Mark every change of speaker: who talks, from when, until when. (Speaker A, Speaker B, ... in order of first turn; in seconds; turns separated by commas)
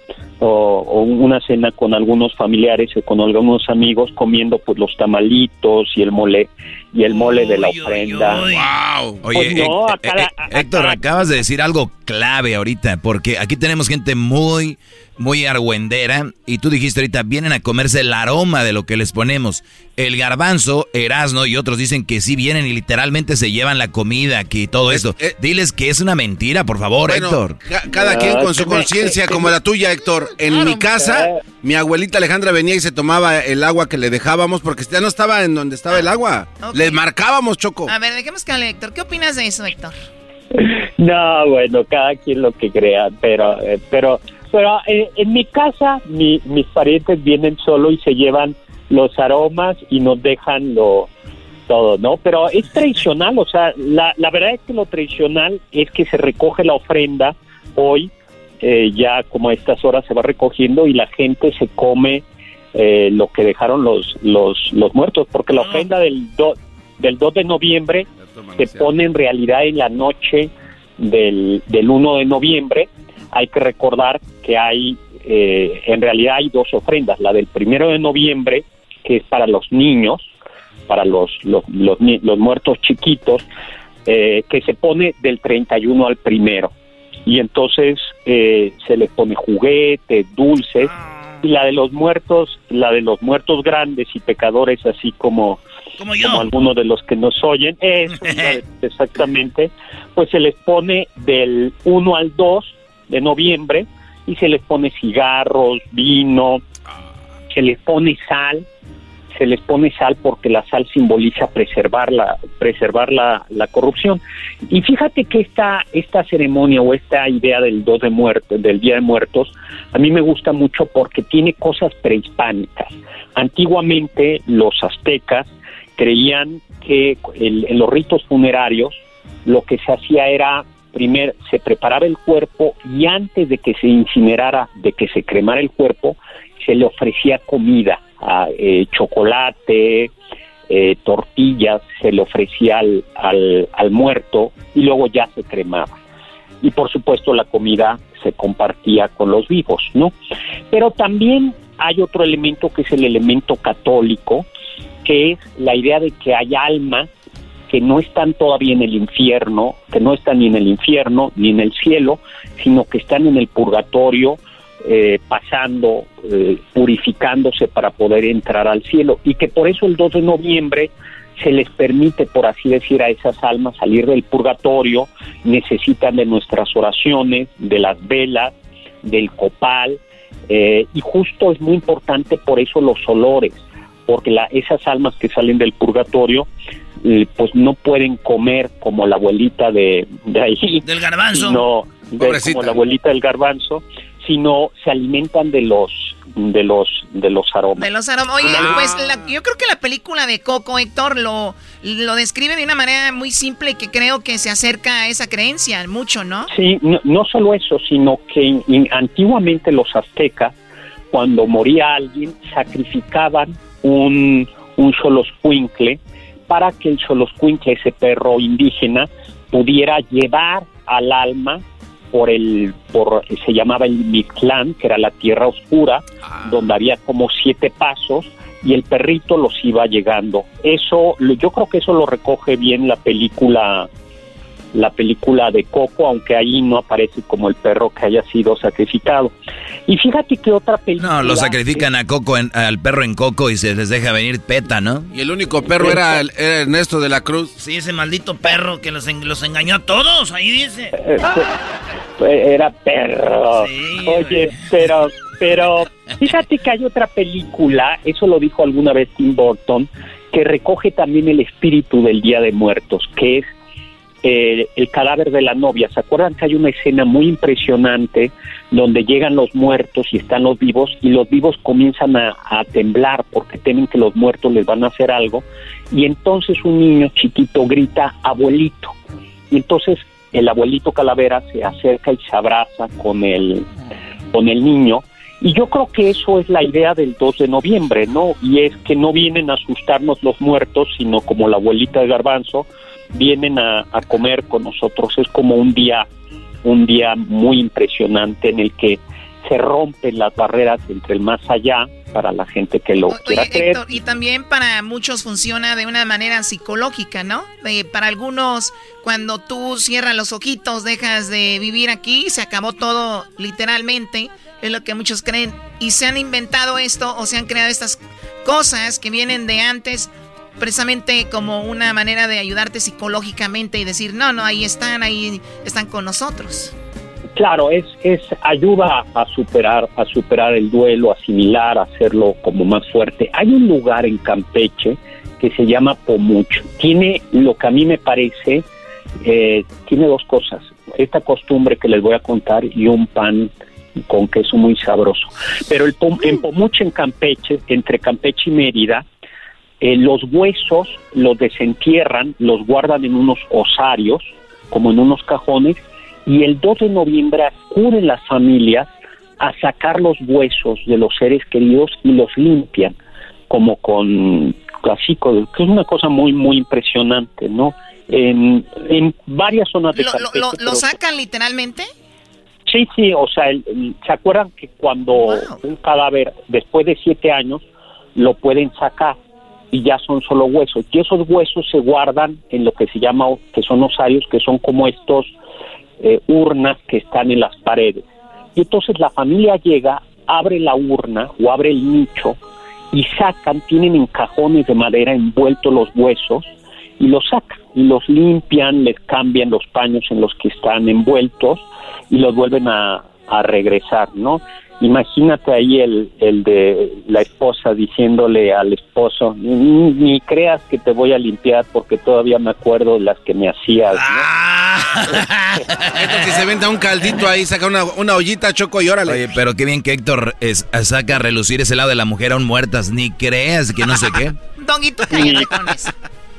Speaker A: 0.4-8.5, Speaker B: 7.1-8.7, Speaker C: 8.5-9.2, Speaker D: 9.2-27.6, Speaker A: 9.3-11.1, Speaker C: 24.9-25.4, Speaker C: 27.1-37.9, Speaker A: 28.1-29.4, Speaker E: 36.6-37.0, Speaker E: 37.9-40.0, Speaker A: 40.5-51.1, Speaker A: 51.7-80.3, Speaker B: 65.5-65.9, Speaker C: 68.2-68.9, Speaker A: 80.9-83.5, Speaker A: 84.1-86.7, Speaker A: 87.3-90.9, Speaker B: 90.8-91.4, Speaker A: 91.4-95.6, Speaker B: 96.0-96.5, Speaker A: 96.2-106.6, Speaker B: 98.2-98.6, Speaker A: 107.5-108.7, Speaker A: 109.3-140.1, Speaker A: 140.7-146.0, Speaker A: 146.6-150.1, Speaker A: 150.7-154.5, Speaker A: 155.0-157.1, Speaker A: 157.7-186.5, Speaker A: 187.0-197.9, Speaker B: 190.8-191.6, Speaker C: 192.2-192.8, Speaker E: 197.8-206.5, Speaker C: 198.4-199.3, Speaker A: 198.5-198.7, Speaker A: 206.5-210.5, Speaker A: 211.1-233.9, Speaker C: 226.3-226.6, Speaker A: 234.7-239.3, Speaker A: 239.9-241.9, Speaker D: 241.0-245.1, Speaker C: 245.1-247.5, Speaker A: 245.8-246.2, Speaker B: 247.6-250.9, Speaker A: 251.0-251.5, Speaker A: 252.2-263.5, Speaker B: 253.6-254.4, Speaker A: 264.2-278.9, Speaker A: 279.5-283.7, Speaker A: 284.3-296.1, Speaker A: 296.6-303.9, Speaker E: 303.1-326.7, Speaker A: 327.4-338.6, Speaker A: 339.2-349.1, Speaker A: 349.8-362.9, Speaker A: 363.5-370.9, Speaker E: 369.9-371.9, Speaker A: 372.7-377.6, Speaker E: 375.1-375.6, Speaker A: 378.2-379.2, Speaker A: 379.7-385.3, Speaker A: 386.0-392.4, Speaker A: 392.9-396.5, Speaker A: 397.0-414.3, Speaker B: 413.9-416.2, Speaker C: 415.9-419.2, Speaker D: 419.1-424.4, Speaker E: 424.6-425.9